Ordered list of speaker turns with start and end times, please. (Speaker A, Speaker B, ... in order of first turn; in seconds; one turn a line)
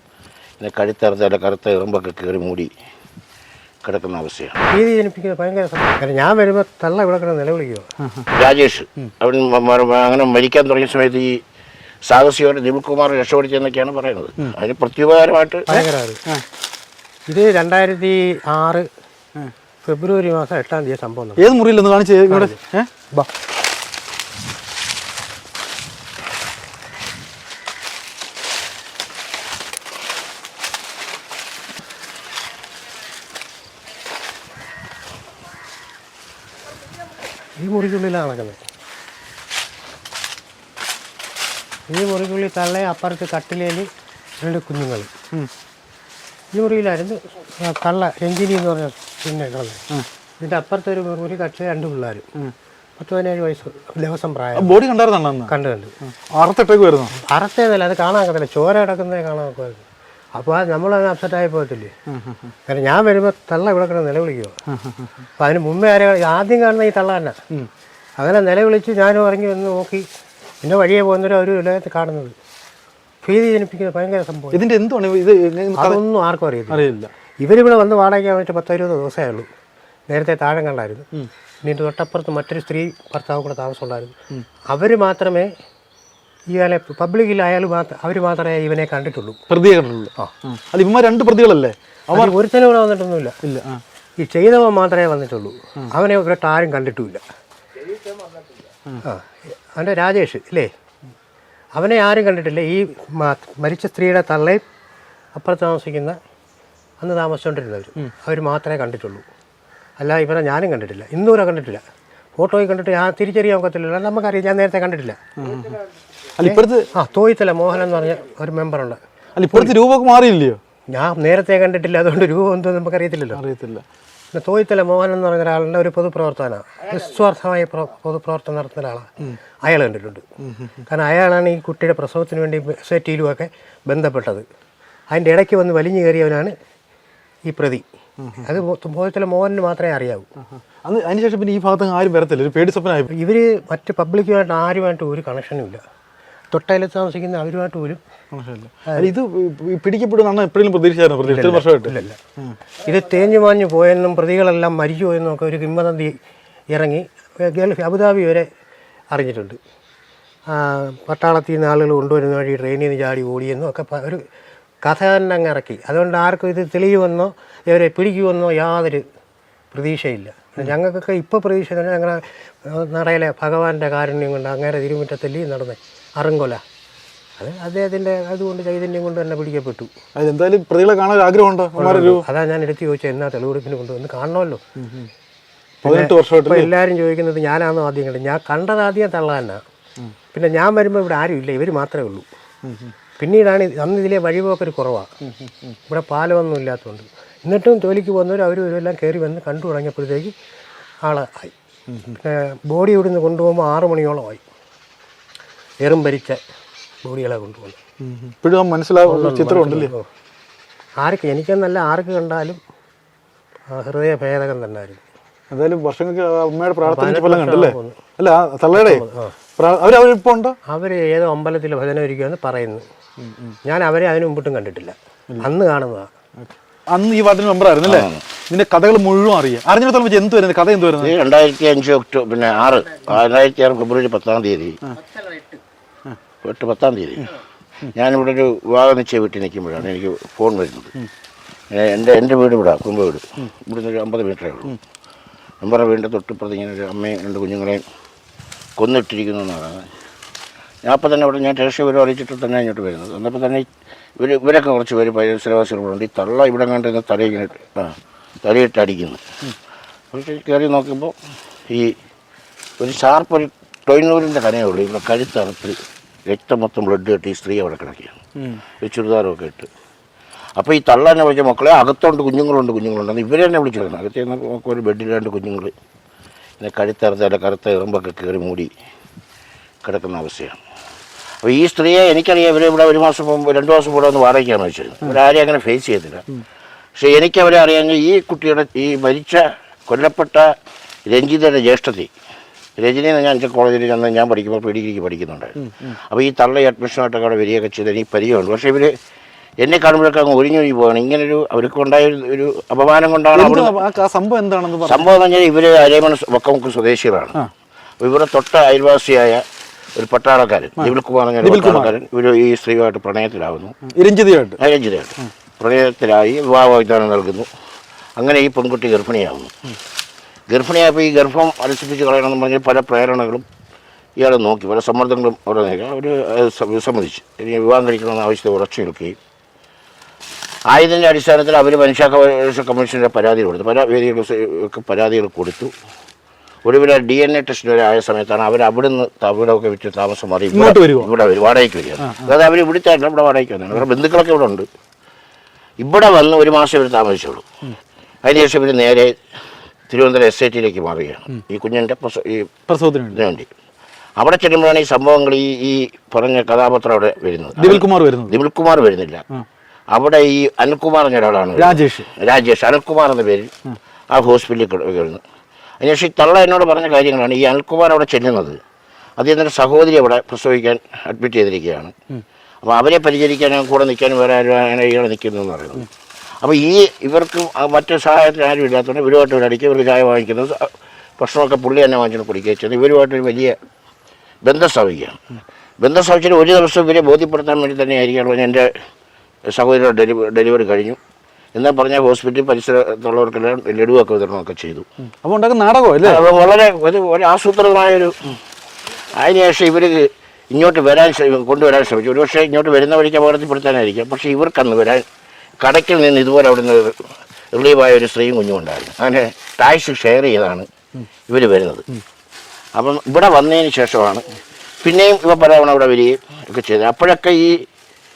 Speaker A: 0.6-2.7
Speaker A: 3.8-4.6
Speaker B: 4.7-7.9
Speaker C: 8.0-8.3
Speaker A: 8.3-11.4
Speaker A: 12.1-15.7
Speaker B: 15.7-16.2
Speaker C: 15.8-16.4
Speaker B: 17.3-18.9
Speaker B: 19.8-21.5
Speaker C: 21.4-22.9
Speaker B: 37.6-38.6
Speaker B: 41.9-43.9
Speaker B: 44.4-45.1
Speaker B: 46.5-49.8
Speaker B: 50.4-52.3
Speaker B: 53.0-54.8
Speaker C: 54.5-55.5
Speaker B: 55.5-55.9
Speaker C: 56.1-57.1
Speaker B: 57.2-59.8
Speaker B: 60.4-61.9
Speaker C: 62.1-62.5
Speaker B: 62.7-64.5
Speaker C: 64.7-65.1
Speaker B: 65.4-67.3
Speaker B: 68.2-70.0
Speaker B: 70.6-72.3
Speaker B: 73.2-74.6
Speaker C: 74.5-76.0
Speaker B: 75.8-76.9
Speaker C: 76.7-77.1
Speaker B: 77.4-79.5
Speaker B: 80.1-81.0
Speaker B: 81.6-84.1
Speaker B: 84.7-85.5
Speaker B: 86.5-89.4
Speaker C: 89.5-92.3
Speaker B: 92.1-93.3
Speaker C: 93.4-93.8
Speaker B: 94.2-97.2
Speaker B: 99.0-100.7
Speaker B: 101.8-104.6
Speaker B: 105.3-106.2
Speaker B: 107.0-109.2
Speaker B: 110.0-111.8
Speaker B: 112.4-115.2
Speaker C: 115.4-115.8
Speaker C: 116.4-116.9
Speaker B: 116.4-119.0
Speaker C: 119.3-120.6
Speaker B: 120.9-123.4
Speaker C: 123.3-123.8
Speaker B: 124.3-129.1
Speaker B: 129.7-130.2
Speaker C: 130.4-130.8
Speaker B: 130.9-134.4
Speaker B: 135.1-136.5
Speaker B: 137.5-137.8
Speaker C: 138.2-138.5
Speaker B: 138.4-140.3
Speaker C: 140.9-143.1
Speaker B: 143.1-145.8
Speaker B: 146.5-148.0
Speaker C: 148.3-152.6
Speaker B: 151.2-152.2
Speaker B: 152.8-156.2
Speaker B: 156.7-158.5
Speaker B: 159.1-159.6
Speaker B: 160.5-164.2
Speaker B: 164.8-169.0
Speaker B: 169.7-176.6
Speaker B: 177.4-179.9
Speaker C: 180.2-182.2
Speaker B: 181.8-184.6
Speaker C: 184.8-185.1
Speaker B: 185.8-189.6
Speaker C: 185.8-186.7
Speaker B: 190.3-192.2
Speaker C: 192.7-192.9
Speaker B: 193.2-195.1
Speaker B: 195.9-200.3
Speaker B: 201.1-201.5
Speaker C: 201.9-202.2
Speaker B: 202.2-204.4
Speaker B: 205.8-206.4
Speaker B: 207.1-207.8
Speaker C: 208.0-209.9
Speaker B: 209.1-210.1
Speaker B: 211.0-212.6
Speaker B: 213.7-215.0
Speaker C: 215.5-219.0
Speaker B: 216.8-218.0
Speaker B: 218.7-219.3
Speaker C: 219.6-220.6
Speaker B: 220.7-222.8
Speaker C: 223.2-223.6
Speaker B: 223.7-226.1
Speaker C: 226.4-231.1
Speaker A: 227.8-228.2
Speaker A: 231.0-234.8
Speaker B: 235.1-235.6
Speaker A: 236.4-237.3
Speaker A: 237.9-240.9
Speaker A: 241.7-244.8
Speaker A: 245.6-247.8
Speaker A: 248.8-249.9
Speaker A: 250.8-253.7
Speaker A: 254.2-259.2
Speaker A: 260.1-261.1
Speaker A: 261.7-262.0
Speaker A: 262.8-265.8
Speaker A: 266.3-268.2
Speaker A: 268.8-269.7
Speaker A: 270.6-275.7
Speaker A: 276.6-278.7
Speaker A: 279.8-280.6
Speaker A: 281.4-286.2
Speaker A: 287.0-290.6
Speaker A: 291.1-292.1
Speaker A: 292.8-298.9
Speaker A: 299.6-303.8
Speaker C: 303.4-305.1
Speaker A: 304.8-307.4
Speaker A: 308.0-309.4
Speaker A: 310.0-313.8
Speaker C: 310.8-311.9
Speaker C: 313.9-314.6
Speaker A: 314.6-317.5
Speaker A: 318.2-319.5
Speaker A: 320.5-323.4
Speaker A: 324.2-329.2
Speaker A: 330.7-335.7
Speaker A: 336.6-344.7
Speaker C: 340.5-341.1
Speaker C: 342.0-342.3
Speaker A: 345.8-347.4
Speaker A: 348.2-349.1
Speaker A: 349.9-352.5
Speaker C: 352.7-353.2
Speaker A: 353.1-353.5
Speaker A: 354.2-359.2
Speaker C: 357.6-358.3
Speaker A: 359.9-363.5
Speaker C: 361.6-362.1
Speaker A: 364.1-365.2
Speaker A: 365.8-368.6
Speaker A: 369.2-371.9
Speaker A: 372.6-375.9
Speaker A: 376.4-383.6
Speaker A: 384.4-385.2
Speaker A: 385.8-388.7
Speaker A: 389.5-391.0
Speaker A: 391.6-394.9
Speaker C: 395.2-396.2
Speaker A: 396.0-398.3
Speaker A: 399.1-405.1
Speaker A: 405.6-410.7
Speaker A: 411.3-411.9
Speaker A: 412.8-414.3
Speaker A: 414.8-417.7